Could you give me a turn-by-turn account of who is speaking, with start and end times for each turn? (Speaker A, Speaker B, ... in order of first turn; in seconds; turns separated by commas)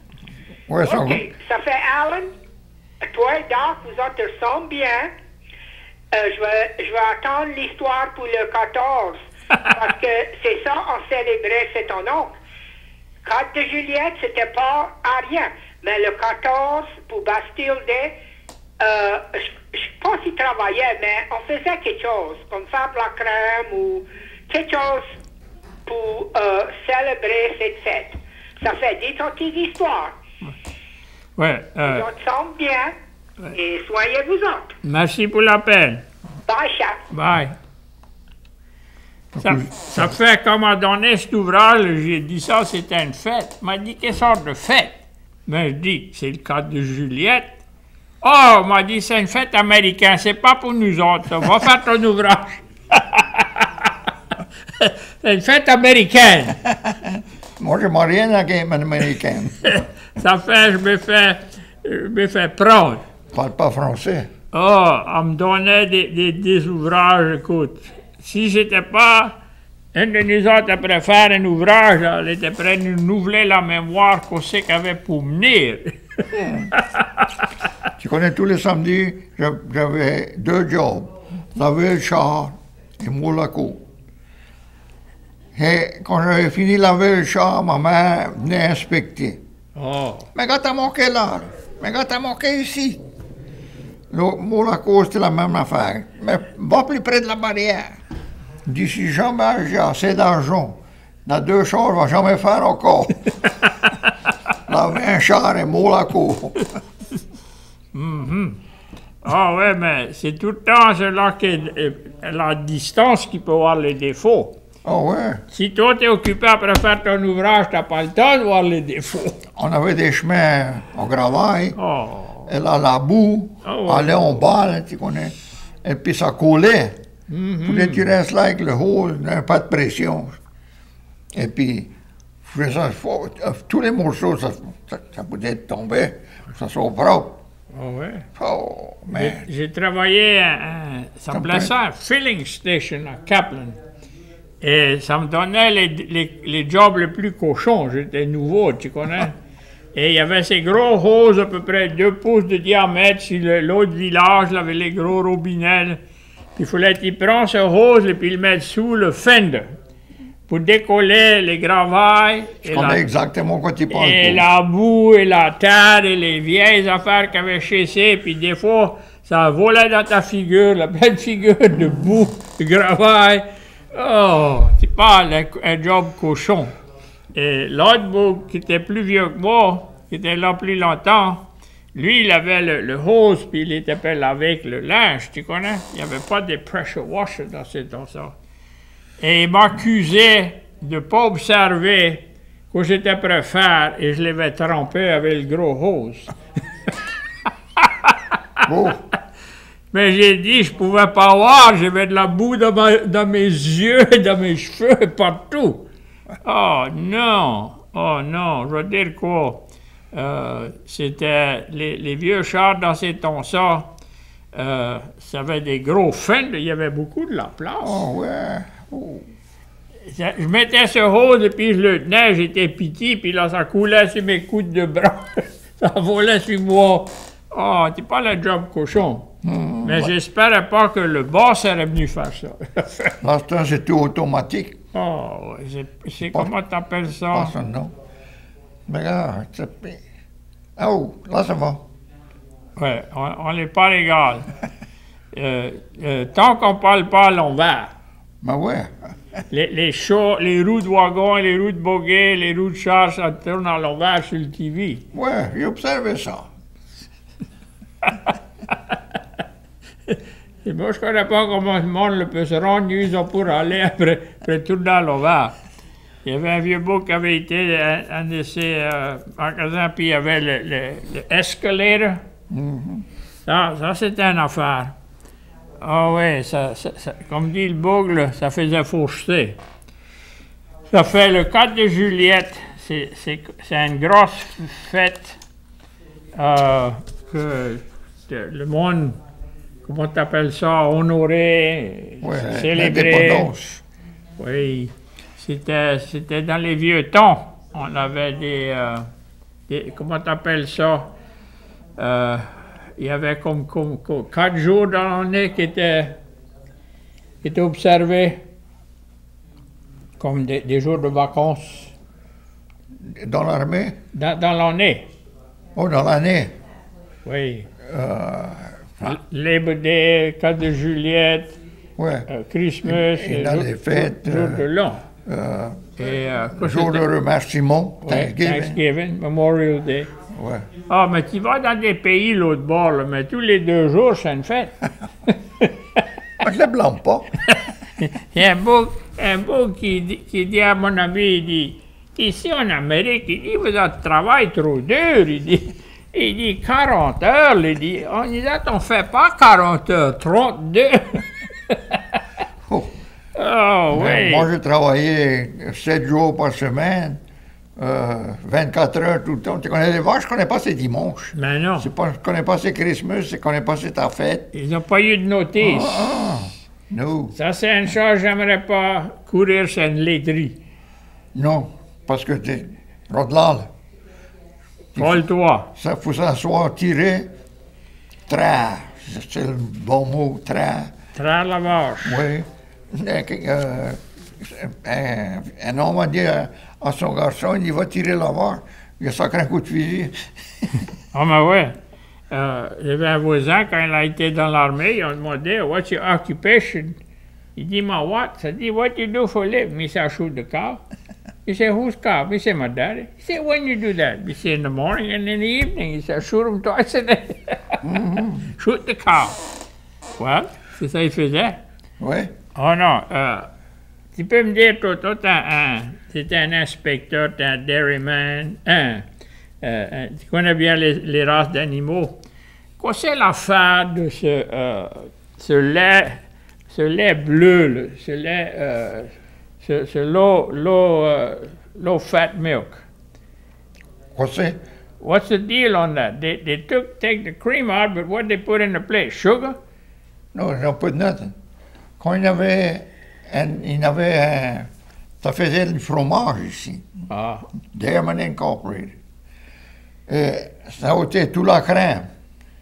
Speaker A: 0.7-1.3, Speaker B: 0.8-2.3, Speaker B: 3.0-5.1, Speaker B: 6.1-12.3, Speaker B: 13.2-18.1, Speaker B: 18.8-25.1, Speaker B: 25.9-30.2, Speaker C: 31.4-32.0, Speaker B: 31.8-33.0, Speaker B: 33.5-34.8, Speaker C: 34.8-36.0, Speaker B: 36.5-37.0, Speaker C: 37.1-37.6, Speaker A: 39.3-40.1, Speaker C: 39.4-47.6, Speaker C: 48.2-53.9, Speaker C: 54.7-56.6, Speaker A: 56.7-59.8, Speaker C: 59.6-63.1, Speaker A: 63.3-64.3, Speaker C: 64.5-69.4, Speaker C: 69.9-76.2, Speaker A: 76.3-76.7, Speaker C: 76.7-77.3, Speaker A: 78.0-83.8, Speaker A: 85.5-89.4, Speaker C: 89.8-90.3, Speaker A: 90.3-93.0, Speaker A: 94.1-98.0, Speaker A: 98.7-103.3, Speaker C: 103.6-103.9, Speaker A: 104.7-106.7, Speaker C: 107.9-108.6, Speaker C: 109.2-114.6, Speaker A: 114.8-115.4, Speaker C: 115.5-119.5, Speaker A: 119.6-121.8, Speaker C: 121.8-122.5, Speaker A: 122.5-127.0, Speaker C: 123.6-124.4, Speaker C: 127.3-128.1, Speaker A: 127.7-130.4, Speaker A: 131.3-131.9, Speaker A: 132.4-137.4, Speaker C: 137.7-138.3, Speaker A: 138.4-139.5, Speaker C: 139.1-143.8, Speaker A: 141.3-141.7, Speaker C: 144.6-149.4, Speaker C: 149.9-156.0, Speaker C: 156.6-159.8, Speaker C: 160.5-163.0, Speaker A: 162.7-164.5, Speaker C: 163.9-176.8, Speaker C: 177.3-188.3, Speaker C: 189.2-196.3, Speaker C: 197.8-198.7, Speaker A: 198.6-199.0, Speaker C: 199.9-205.9, Speaker C: 206.4-213.9, Speaker C: 214.5-218.1, Speaker A: 217.8-219.3, Speaker C: 220.1-229.3, Speaker A: 229.4-230.1, Speaker C: 229.8-233.2, Speaker A: 233.2-234.8, Speaker C: 234.9-237.5, Speaker A: 236.2-236.5, Speaker A: 237.3-237.9, Speaker A: 238.9-240.0, Speaker A: 240.8-241.8, Speaker C: 242.8-244.5, Speaker C: 245.3-247.9, Speaker A: 248.4-249.1, Speaker C: 249.5-255.1, Speaker A: 255.1-256.5, Speaker C: 258.0-258.3, Speaker C: 260.1-265.5, Speaker C: 266.2-272.2, Speaker A: 272.5-273.1, Speaker C: 273.5-274.9, Speaker C: 275.8-279.6, Speaker C: 280.9-285.4, Speaker C: 286.4-289.2, Speaker C: 289.9-293.5, Speaker A: 292.2-293.8, Speaker C: 294.4-299.1, Speaker C: 299.7-301.1, Speaker C: 302.0-306.2, Speaker C: 307.4-308.4, Speaker C: 310.2-311.9, Speaker A: 313.0-314.0, Speaker C: 314.1-315.1, Speaker A: 315.8-316.5, Speaker C: 317.2-317.7, Speaker A: 317.8-319.2, Speaker C: 319.1-321.6, Speaker A: 322.0-322.3, Speaker C: 322.3-325.1, Speaker A: 322.8-324.7, Speaker A: 325.2-326.0, Speaker C: 326.0-327.1, Speaker A: 326.5-328.8, Speaker C: 328.0-330.1, Speaker A: 330.3-330.7, Speaker C: 330.9-334.8, Speaker C: 335.3-336.0, Speaker A: 336.4-337.4, Speaker C: 337.5-352.0, Speaker C: 353.4-354.5, Speaker A: 353.9-357.2, Speaker A: 357.8-364.5, Speaker C: 361.4-361.9, Speaker C: 364.5-366.1, Speaker A: 365.6-367.4, Speaker C: 367.4-370.6, Speaker A: 371.4-373.7, Speaker A: 374.9-377.3, Speaker C: 375.0-375.7, Speaker A: 378.3-380.9, Speaker C: 381.2-382.3, Speaker A: 382.0-390.9, Speaker C: 391.1-391.8, Speaker C: 392.3-397.0, Speaker C: 397.6-400.8, Speaker C: 401.5-407.8, Speaker A: 407.8-408.5, Speaker C: 408.6-409.4, Speaker C: 410.2-411.6, Speaker A: 412.0-412.3, Speaker C: 412.6-413.5, Speaker C: 414.1-419.1, Speaker C: 419.6-422.2, Speaker C: 422.8-432.8, Speaker A: 434.1-434.6, Speaker C: 435.0-439.6, Speaker A: 440.3-441.4, Speaker A: 442.0-444.7, Speaker A: 445.2-446.9, Speaker C: 447.1-447.5, Speaker A: 447.7-448.9, Speaker A: 450.1-452.1